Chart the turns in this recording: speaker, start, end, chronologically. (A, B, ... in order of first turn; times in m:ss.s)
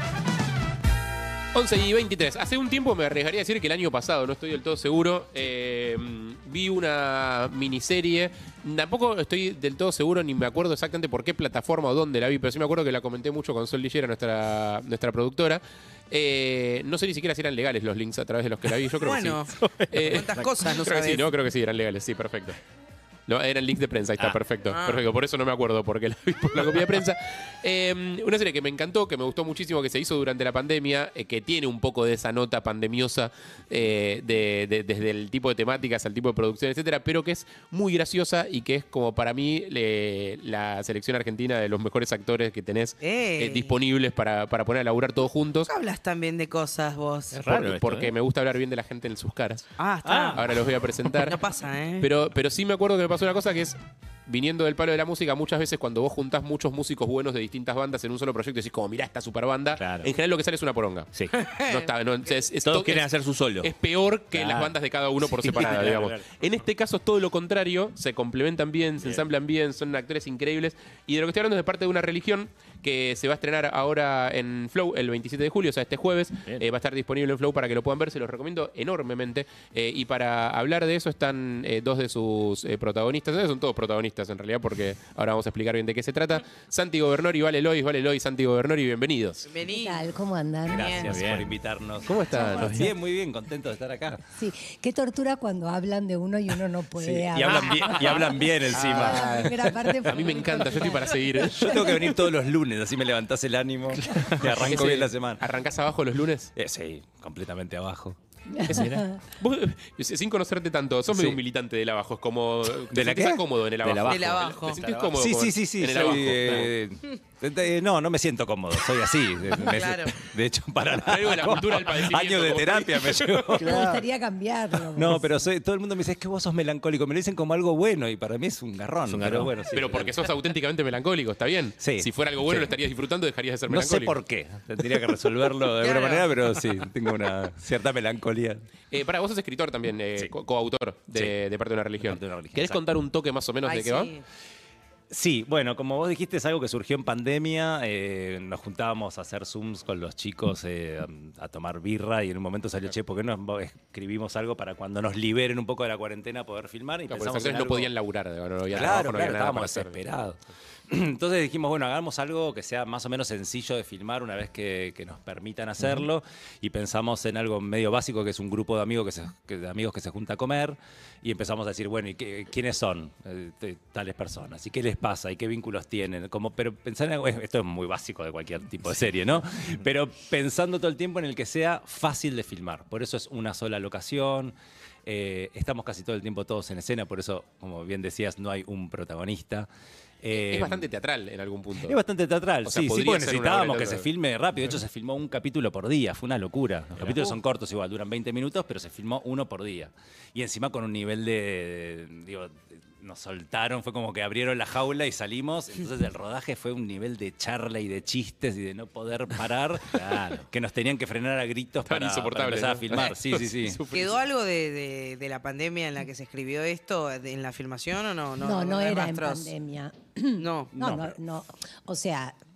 0:01.5-0:22.6 A
0:19.0-0:21.3 B
0:23.3-0:45.7 A
0:24.7-0:25.0 B
0:43.0-0:43.7 B
0:45.7-0:47.4 B
0:47.3-0:48.1 C
0:47.5-0:49.7 A
0:49.8-0:50.5 B
0:50.1-0:50.4 C
0:50.3-0:51.4 A
0:51.1-0:52.1 B
0:52.0-1:03.1 A
0:59.8-1:00.1 C
1:01.4-1:01.9 B
1:02.6-1:03.7 C
1:03.6-1:29.5 A
1:04.3-1:06.2 C
1:29.4-1:30.1 B
1:29.6-1:31.0 D
1:30.7-1:34.2 E
1:30.7-1:31.1 B
1:31.0-1:31.5 C
1:32.2-1:32.8 C
1:32.3-1:32.7 A
1:32.3-1:32.9 D
1:34.3-1:42.1 D
1:37.0-1:39.5 E
1:38.8-1:39.5 C
1:40.0-1:42.0 A
1:41.4-1:45.4 E
1:44.4-1:46.5 A
1:46.5-1:48.2 E
1:48.5-1:49.2 D
1:48.7-1:56.7 A
1:51.1-1:51.4 E
1:52.9-1:54.4 E
1:53.9-1:54.9 C
1:54.1-1:54.8 B
1:55.0-2:04.0 E
1:59.5-2:00.2 B
2:00.9-2:03.6 A
2:03.5-2:05.4 D
2:04.9-2:10.1 E
2:09.1-2:09.7 C
2:09.7-2:14.2 A
2:11.8-2:12.7 E
2:13.7-2:18.6 E
2:15.8-2:16.2 B
2:18.9-2:24.1 A
2:22.0-2:22.8 E
2:23.6-2:24.2 B
2:25.1-2:37.9 E
2:37.1-2:40.0 A
2:38.7-3:09.7 E
3:10.2-3:10.9 E
3:10.3-3:12.0 A
3:11.8-3:33.8 E
3:12.6-3:14.1 A
3:29.9-3:30.4 C
3:31.8-3:34.2 A
3:33.9-3:39.5 B
3:38.4-3:42.4 D
3:40.4-3:40.7 B
3:40.7-3:41.2 E